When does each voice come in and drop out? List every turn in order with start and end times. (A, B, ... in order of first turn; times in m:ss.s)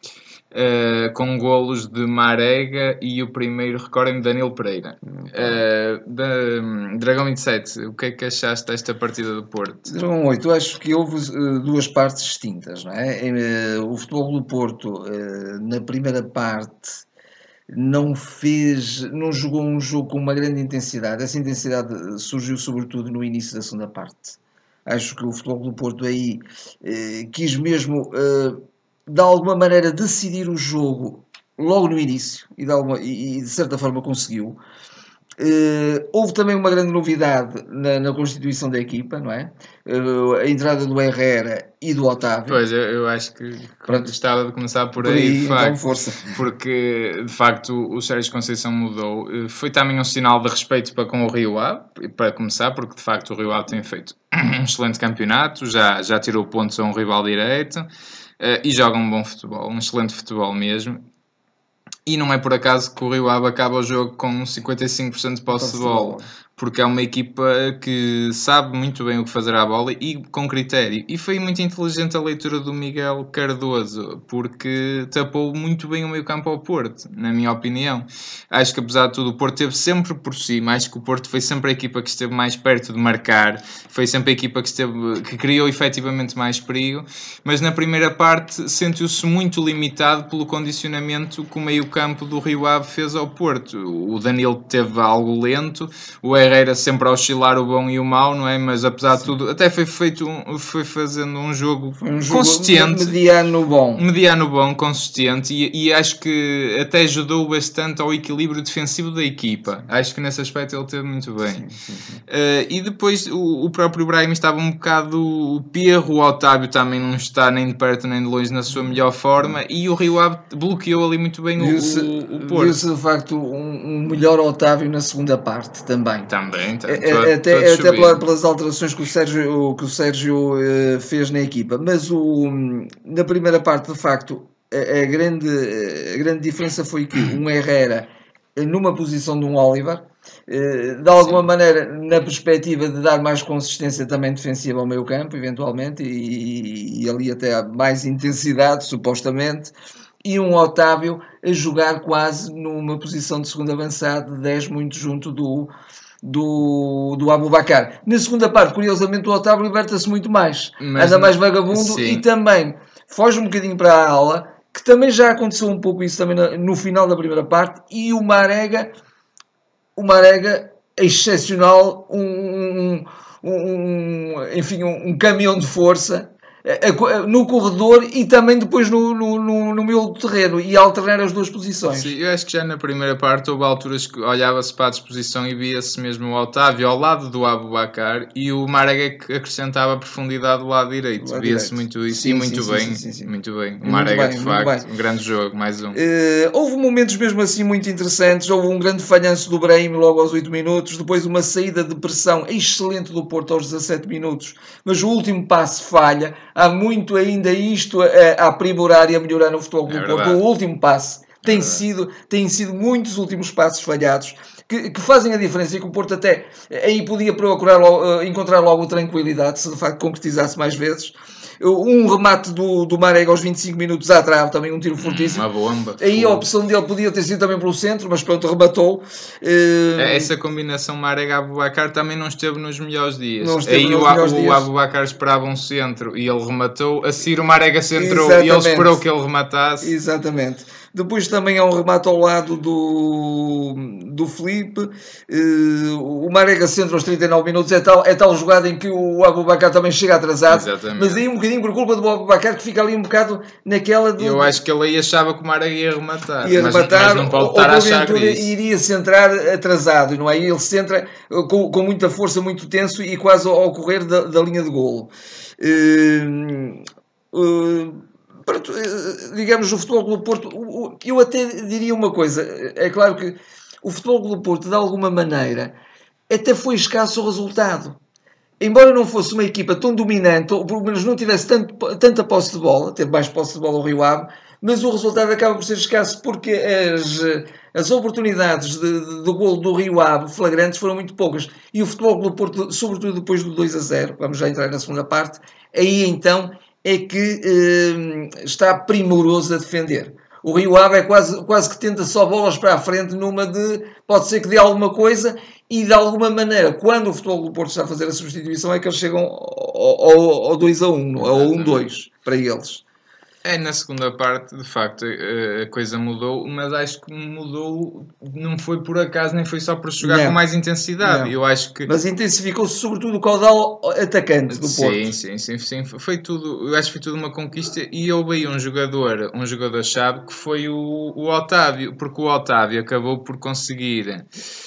0:00.5-0:09.9 A
0:05.2-0:05.5 B
0:09.8-0:17.0 B
0:17.7-0:34.6 B
0:35.4-0:42.6 B
0:42.5-0:45.8 A
0:43.9-0:44.1 B
0:45.0-0:46.3 B
0:46.3-0:57.9 A
0:58.4-1:01.0 A
1:02.0-1:43.2 A
1:05.5-1:06.3 B
1:42.0-1:44.0 B
1:44.0-1:51.6 A
1:51.6-1:52.2 B
1:52.3-2:02.8 A
2:01.6-2:06.3 B
2:06.3-2:08.2 A
2:06.9-2:35.7 B
2:36.2-2:48.9 B
2:40.8-2:42.2 A
2:50.0-3:02.1 B
3:01.9-3:16.0 A
3:11.2-3:14.8 B
3:15.9-3:45.4 B
3:29.9-3:30.4 A
3:31.4-3:31.8 A
3:45.0-3:46.4 A
3:46.0-3:50.3 B
3:50.0-3:59.9 A
3:53.4-3:54.7 B
3:58.0-3:59.0 B
3:59.8-4:14.6 B
4:10.5-4:11.2 A
4:14.2-4:18.5 A
4:16.4-4:35.7 B
4:36.3-4:38.0 B
4:38.6-5:12.8 B
5:11.2-5:11.8 A
5:13.4-5:21.9 A
5:20.0-5:20.4 B
5:21.0-5:21.3 B
5:21.9-5:25.1 B
5:24.5-5:34.3 A